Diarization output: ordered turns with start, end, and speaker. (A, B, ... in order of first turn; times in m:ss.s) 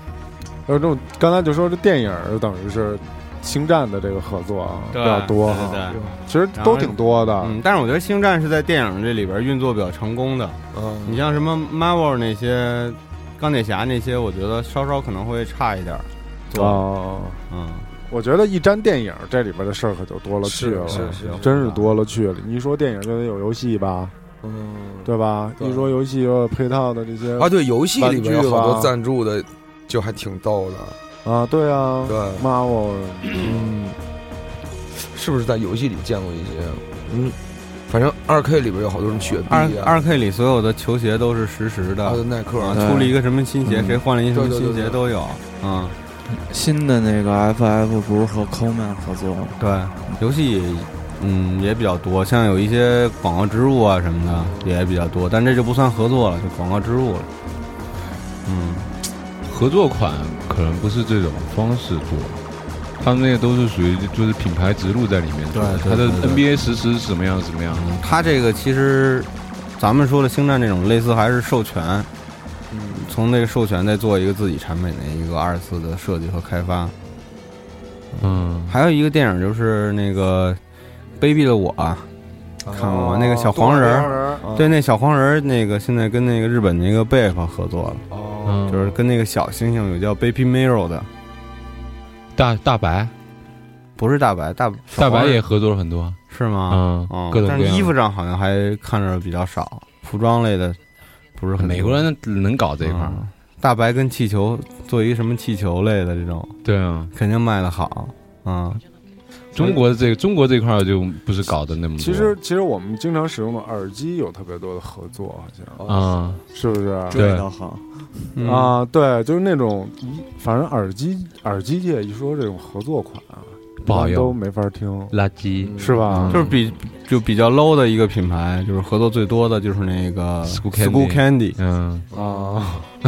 0:00.7-0:07.6 A
0:04.9-0:06.0 B
0:05.9-0:06.2 C
0:06.6-0:16.9 B
0:10.7-0:11.3 C
0:16.5-0:17.4 A
0:17.5-0:17.9 B
0:18.1-0:24.1 A
0:20.4-0:21.9 C
0:20.9-0:21.6 B
0:24.4-0:25.9 C
0:25.0-0:28.9 A
0:27.4-0:31.0 C
0:31.2-0:33.6 A
0:32.1-0:32.4 C
0:33.4-0:33.9 C
0:35.0-0:37.4 C
0:37.9-0:40.0 C
0:39.5-0:46.0 B
0:42.0-0:42.9 C
0:42.7-0:43.2 D
0:44.3-0:45.0 C
0:46.5-0:49.6 D
0:49.6-0:57.3 B
0:58.5-0:58.9 B
0:59.4-1:02.4 E
1:03.0-1:08.0 E
1:05.5-1:06.5 B
1:07.7-1:12.1 B
1:12.7-1:13.1 C
1:12.9-1:16.9 B
1:18.2-1:18.8 E
1:18.7-1:20.6 B
1:21.2-1:22.1 B
1:22.6-1:24.7 C
1:22.7-1:28.1 B
1:22.8-1:24.4 A
1:28.1-1:28.7 C
1:28.5-1:29.0 E
1:28.7-1:31.1 B
1:32.4-1:33.1 E
1:34.0-1:35.4 B
1:34.9-1:36.2 E
1:36.3-1:40.8 B
1:36.7-1:37.9 E
1:41.4-1:42.1 B
1:41.6-1:43.2 E
1:42.8-1:46.6 B
1:46.6-1:47.1 E
1:47.1-1:48.8 B
1:49.6-1:52.4 E
1:52.0-1:55.8 A
1:55.8-1:56.2 C
1:55.9-1:56.4 E
1:56.5-1:57.2 A
1:57.1-1:58.3 D
1:57.1-1:57.5 E
1:58.4-1:58.8 B
1:58.4-2:05.2 A
2:03.8-2:04.4 E
2:05.1-2:06.6 E
2:05.6-2:06.1 C
2:05.8-2:06.5 A
2:06.3-2:11.6 B
2:10.5-2:12.1 E
2:12.1-2:12.6 C
2:12.1-2:12.9 A